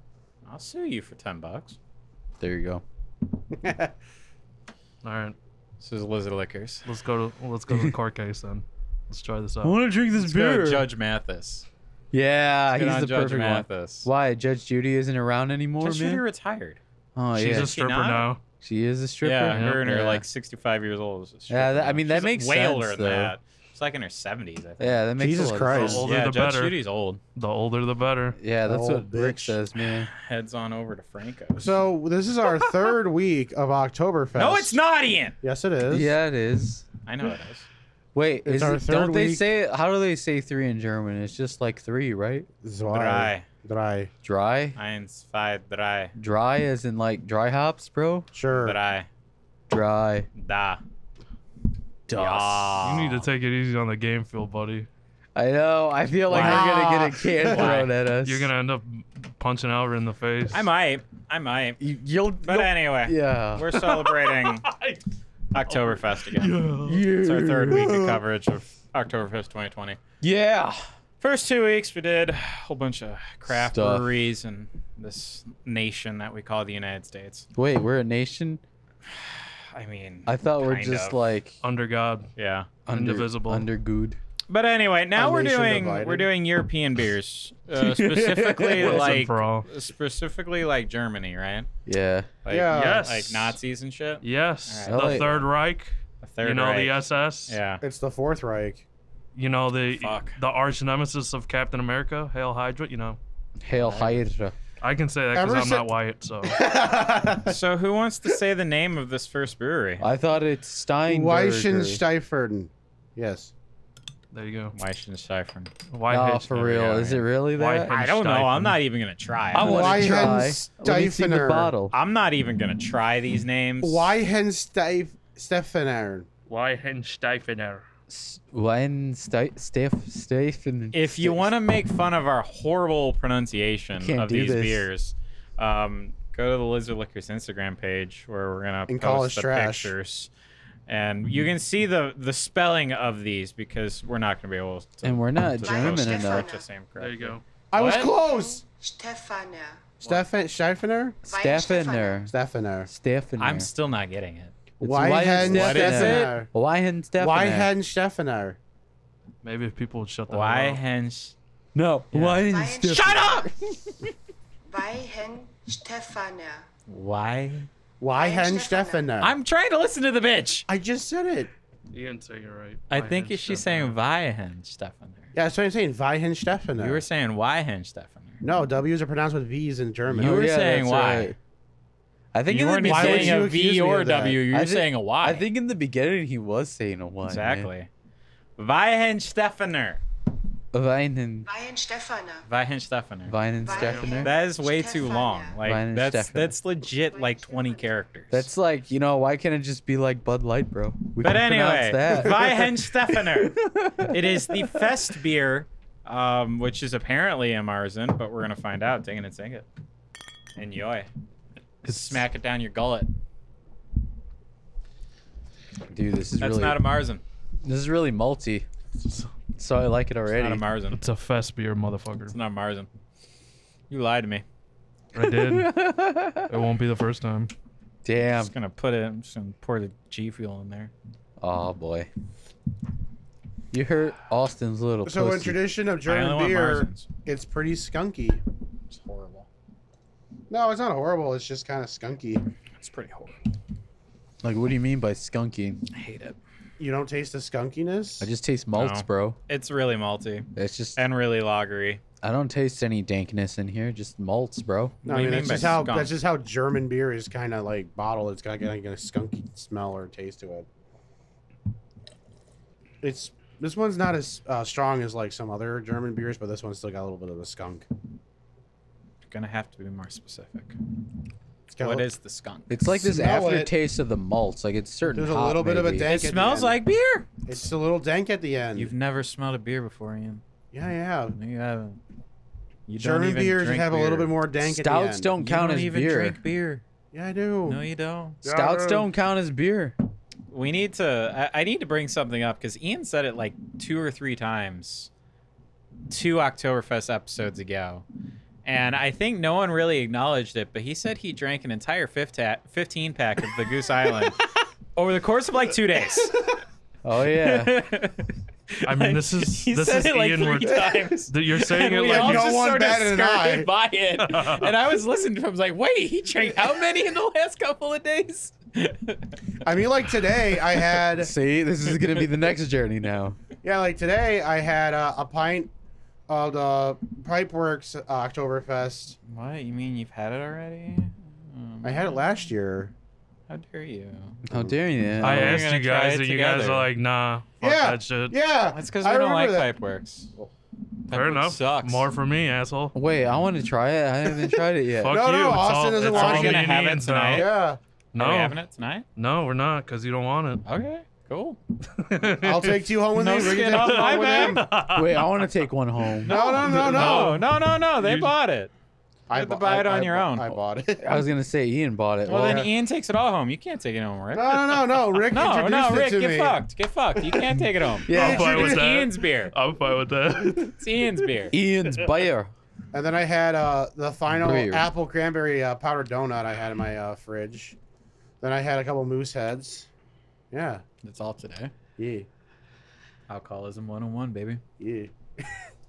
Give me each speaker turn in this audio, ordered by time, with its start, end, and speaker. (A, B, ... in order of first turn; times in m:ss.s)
0:00.5-0:01.8 A
0:02.4-0:02.8 B
0:03.6-0:03.9 C
0:05.0-0:05.4 D
0:05.8-0:06.8 A
0:06.8-0:09.8 D
0:09.6-0:10.9 B
0:10.2-0:11.7 A
0:12.1-0:16.2 B
0:12.7-0:14.1 A
0:15.8-0:16.8 A
0:17.2-0:17.8 B
0:17.4-0:18.4 D
0:17.5-0:18.3 A
0:18.6-0:20.2 B
0:19.2-0:25.0 A
0:19.5-0:19.8 D
0:21.5-0:23.4 B
0:24.8-0:26.0 B
0:25.2-0:26.1 C
0:25.7-0:27.2 A
0:25.7-0:26.8 D
0:27.4-0:28.4 D
0:28.4-0:30.1 B
0:28.6-0:29.6 C
0:30.2-0:31.8 A
0:31.6-0:34.8 C
0:34.4-0:35.4 A
0:35.4-0:36.2 C
0:35.9-0:36.9 B
0:37.1-0:37.7 A
0:38.2-0:42.5 B
0:38.4-0:39.5 C
0:42.6-0:44.1 C
0:42.9-0:43.5 A
0:44.2-0:44.8 B
0:44.8-0:46.1 A
0:46.2-0:48.3 B
0:48.3-0:48.8 C
0:48.5-0:49.1 A
0:49.7-0:50.3 B
0:50.4-0:50.8 A
0:52.1-0:52.8 B
0:52.2-0:53.2 A
0:52.8-0:54.9 D
0:55.4-0:58.5 B
0:56.3-0:57.8 C
0:56.3-0:56.6 D
0:57.4-0:57.9 A
0:58.2-1:00.7 D
1:00.5-1:01.8 A
1:01.8-1:03.8 B
1:02.4-1:04.7 A
1:03.8-1:05.0 D
1:05.5-1:10.0 A
1:05.7-1:07.1 D
1:06.8-1:08.2 B
1:10.2-1:10.8 B
1:11.2-1:17.5 A
1:13.5-1:14.1 B
1:17.6-1:18.6 B
1:19.3-1:21.2 A
1:20.3-1:21.6 B
1:21.6-1:22.3 D
1:22.4-1:22.7 A
1:22.9-1:24.2 B
1:22.9-1:23.7 D
1:24.5-1:31.7 A
1:25.2-1:26.3 C
1:27.8-1:29.2 B
1:28.8-1:29.7 D
1:31.9-1:32.3 B
1:32.4-1:35.4 A
1:32.5-1:33.1 C
1:32.7-1:33.6 D
1:34.2-1:37.6 D
1:34.9-1:35.4 B
1:36.2-1:37.8 A
1:37.8-1:38.8 C
1:39.4-1:43.2 D
1:40.0-1:40.4 A
1:43.6-1:44.5 B
1:43.8-1:44.2 A
1:44.8-1:46.6 D
1:45.3-1:45.9 C
1:46.5-1:47.6 C
1:47.5-1:50.0 A
1:50.0-1:52.0 B
1:51.1-1:53.5 C
1:54.3-1:54.8 D
1:54.7-1:55.7 A
1:55.9-1:58.8 D
1:56.1-1:57.9 B
1:57.9-2:00.3 A
1:59.5-2:02.0 B
1:59.6-2:01.7 C
2:01.9-2:04.1 A
2:03.8-2:06.3 C
2:06.5-2:07.8 D
2:08.1-2:11.5 B
2:10.9-2:20.3 A
2:14.0-2:14.9 B
2:18.9-2:19.9 C
2:20.9-2:28.1 A
2:25.0-2:26.5 B
2:25.6-2:26.7 E
2:27.0-2:27.4 D
2:27.7-2:28.6 C
2:27.9-2:29.9 E
2:30.0-2:31.2 C
2:31.2-2:32.3 E
2:31.3-2:32.3 B
2:32.3-2:32.9 C
2:32.9-2:33.7 B
2:33.4-2:34.6 A
2:34.8-2:36.5 C
2:34.8-2:37.7 B
2:35.4-2:36.4 A
2:37.2-2:38.6 C
2:39.4-2:40.8 D
2:40.3-2:41.4 A
2:41.7-2:43.5 B
2:42.1-2:42.4 D
2:42.5-2:43.5 E
2:42.9-2:43.5 A
2:44.7-2:46.6 E
2:46.9-2:47.7 A
2:48.0-2:49.3 C
2:48.2-2:49.1 E
2:49.2-2:50.7 A
2:50.7-2:51.5 C
2:51.9-2:54.0 D
2:52.9-2:55.3 A
2:55.4-2:57.0 C
2:56.8-2:58.4 A
2:58.4-3:00.5 C
3:00.1-3:01.4 B
3:00.2-3:01.3 A
3:02.3-3:03.5 B
3:02.5-3:05.5 A
3:02.8-3:04.4 C
3:04.5-3:07.7 B
3:07.3-3:07.9 A
3:08.6-3:10.0 A
3:10.7-3:11.5 B
3:11.4-3:12.5 E
3:12.5-3:13.4 A
3:13.3-3:14.3 B
3:13.6-3:15.6 E
3:13.8-3:14.2 D
3:14.0-3:18.5 A
3:15.6-3:16.6 B
3:17.1-3:17.9 E
3:18.3-3:24.9 B
3:21.2-3:29.7 A
3:30.6-3:31.1 A
3:31.8-3:32.2 D
3:31.8-3:33.1 A
3:35.9-3:36.8 B
3:36.4-3:37.2 A
3:37.6-3:38.7 B
3:39.6-3:40.6 B
3:40.3-3:41.0 A
3:41.0-3:42.4 D
3:42.3-3:42.9 A
3:43.9-3:44.4 A
3:45.2-3:45.8 D
3:45.3-3:46.5 B
3:46.5-3:47.5 D
3:48.0-3:48.5 B
3:48.4-3:50.9 A
3:51.4-3:52.1 B
3:53.7-3:55.6 B
3:55.0-3:58.4 C
3:56.0-3:57.1 A
3:58.9-3:59.5 A
4:00.5-4:02.4 C
4:02.8-4:03.4 A
4:04.4-4:05.8 B
4:05.9-4:06.4 A
4:06.8-4:08.3 C
4:08.2-4:09.4 B
4:08.8-4:12.0 A
4:10.6-4:11.0 B
4:12.2-4:15.0 B
4:15.0-4:20.7 C
4:15.1-4:16.1 A
4:23.0-4:27.9 C
4:29.3-4:30.8 A
4:31.7-4:32.1 C
4:31.8-4:32.7 A
4:32.7-4:36.2 B
4:32.8-4:33.7 C
4:35.1-4:36.8 C
4:36.0-4:37.3 A
4:37.5-4:38.9 C
4:38.8-4:40.4 A
4:40.7-4:41.4 C
4:41.4-4:42.0 A
4:42.9-4:44.3 A
4:43.0-4:45.3 C
4:44.6-4:46.4 B
4:45.4-4:46.8 A
4:47.1-4:47.8 C
4:47.7-4:48.4 A
4:48.4-4:49.1 C
4:48.4-4:50.0 B
4:50.5-4:55.1 A
4:56.1-4:58.0 A
4:58.6-5:04.4 A
5:05.0-5:06.5 A
5:07.0-5:07.9 B
5:07.3-5:08.3 A
5:08.8-5:12.5 D
5:08.9-5:19.2 A
5:12.0-5:13.7 C
5:14.2-5:14.7 D
5:19.6-5:21.3 C
5:21.1-5:23.4 B
5:23.6-5:25.7 C
5:26.3-5:29.2 C
5:29.3-5:32.2 A
5:31.8-5:32.9 C
5:33.5-5:34.4 A
5:34.5-5:35.7 B
5:35.2-5:36.9 A
5:35.2-5:38.4 D
5:37.6-5:39.7 C
5:38.7-5:40.5 A
5:41.1-5:42.0 A
5:41.1-5:43.0 D
5:42.9-5:45.2 B
5:45.0-5:47.5 D
5:45.0-5:47.8 C
5:46.0-5:47.5 A
5:48.1-5:49.1 A
5:48.2-5:48.6 D
5:49.2-5:50.6 D
5:50.6-5:51.6 A
5:52.0-5:52.9 D
5:52.4-5:54.7 C
5:53.1-5:54.6 A
5:53.6-5:55.2 D
5:54.9-5:56.4 B
5:56.2-5:58.7 A
5:56.3-5:57.4 C
5:56.6-5:57.4 D
5:58.0-5:58.3 D
5:59.3-6:01.2 C
5:59.3-6:00.5 A
6:01.0-6:02.7 B
6:02.3-6:09.5 A
6:02.3-6:02.7 C
6:04.3-6:06.6 C
6:07.2-6:08.9 C
6:08.1-6:08.7 B
6:08.1-6:10.8 D
6:10.8-6:11.5 A
6:11.5-6:12.5 B
6:12.9-6:17.8 C
6:14.4-6:14.9 B
6:18.4-6:19.9 C
6:20.5-6:20.8 C
6:21.0-6:21.7 A
6:22.0-6:22.3 C
6:23.3-6:24.6 A
6:24.8-6:25.1 C